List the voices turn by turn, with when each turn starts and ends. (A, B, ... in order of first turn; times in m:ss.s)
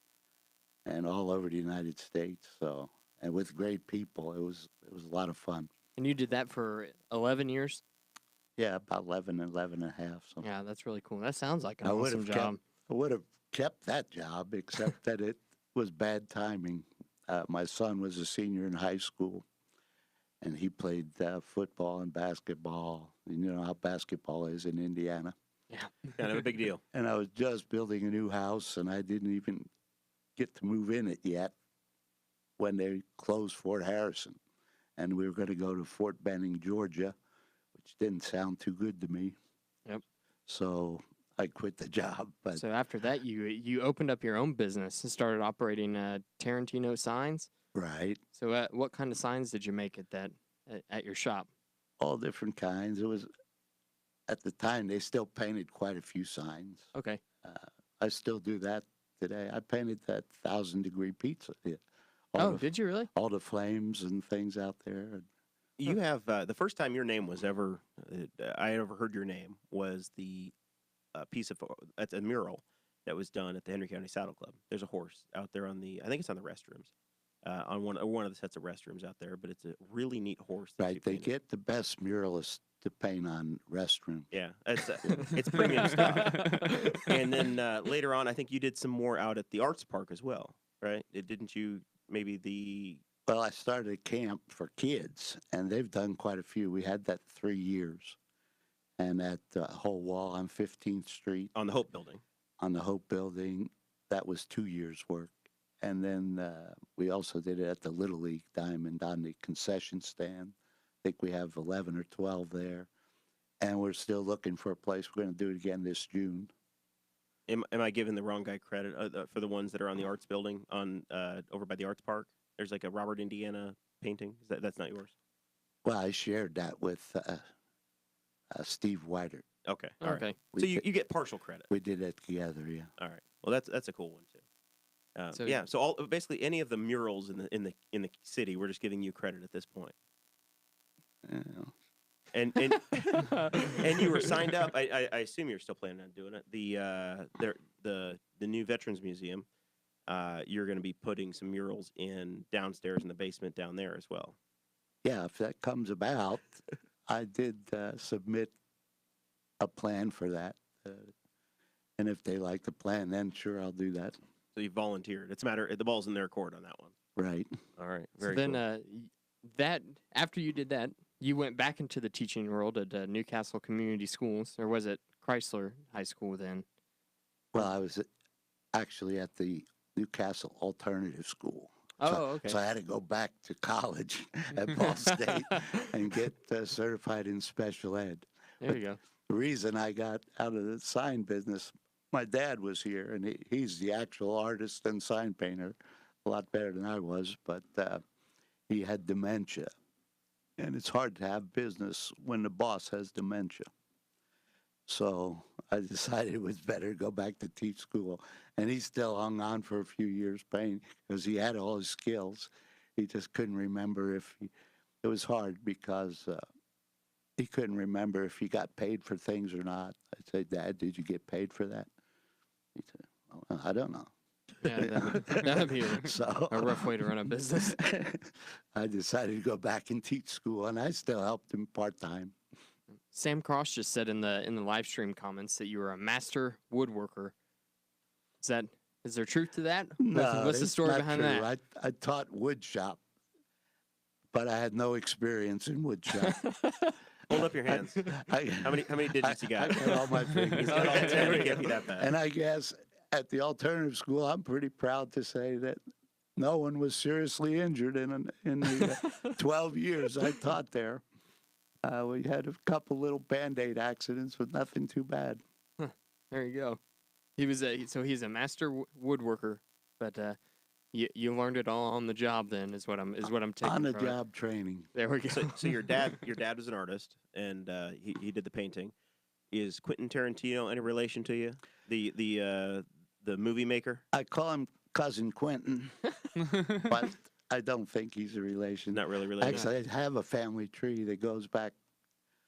0:00.9-0:05.7 A
0:06.0-0:07.8 B
0:08.6-0:10.5 A
0:10.4-0:12.6 B
0:11.8-0:19.5 A
0:20.4-0:25.3 A
0:25.7-0:26.3 B
0:26.2-0:26.8 C
0:26.9-0:29.7 A
0:30.4-0:31.5 A
0:32.6-0:34.4 A
0:35.0-0:37.1 A
0:37.8-0:39.4 A
0:40.5-0:42.6 A
0:42.6-0:47.5 B
0:47.7-0:48.2 A
0:48.4-0:51.5 B
0:52.0-0:53.3 A
0:54.3-0:56.9 A
0:57.0-0:57.2 B
0:57.4-1:01.8 A
1:02.3-1:05.2 A
1:02.4-1:03.1 B
1:05.8-1:10.5 C
1:11.2-1:16.9 C
1:17.4-1:21.3 C
1:20.8-1:24.3 A
1:24.3-1:33.0 C
1:25.0-1:26.0 A
1:25.9-1:26.9 B
1:33.3-1:38.2 A
1:39.0-1:41.5 A
1:41.6-1:42.2 C
1:42.6-1:52.9 A
1:53.6-1:56.5 A
1:57.5-2:05.1 C
2:05.8-2:07.5 A
2:08.6-2:09.4 A
2:09.6-2:11.7 C
2:10.0-2:10.4 B
2:10.5-2:10.9 A
2:11.7-2:12.9 A
2:13.0-2:14.4 C
2:15.2-2:19.9 C
2:15.3-2:15.6 B
2:21.2-2:21.7 A
2:22.3-2:29.5 C
2:23.2-2:23.8 B
2:30.1-2:34.4 C
2:35.0-2:38.5 A
2:39.6-2:41.1 A
2:42.0-2:44.2 A
2:44.6-2:47.0 C
2:47.2-2:47.5 A
2:47.8-2:48.6 C
2:48.2-2:56.6 B
2:57.5-2:58.1 A
2:58.7-3:08.8 A
3:02.0-3:02.6 B
3:04.8-3:05.8 B
3:08.6-3:09.0 B
3:09.3-3:18.0 A
3:18.7-3:19.7 A
3:20.6-3:23.7 A
3:24.9-3:34.5 A
3:35.0-3:36.4 A
3:37.4-3:41.9 A
3:42.8-3:44.1 A
3:44.6-3:47.8 B
3:44.7-3:52.4 A
3:53.1-3:57.3 B
3:58.4-4:01.5 B
4:00.0-4:03.0 A
4:04.3-4:06.4 A
4:06.2-4:07.0 B
4:07.3-4:12.1 C
4:07.3-4:15.8 A
4:10.5-4:11.7 B
4:16.4-4:21.0 A
4:21.8-4:25.4 A
4:25.8-4:26.8 B
4:27.4-4:30.4 B
4:30.9-4:34.2 B
4:33.6-4:34.9 A
4:34.9-4:36.0 B
4:35.3-4:38.9 C
4:39.5-4:44.0 C
4:44.1-4:46.0 A
4:46.5-4:51.8 A
4:48.9-4:49.7 C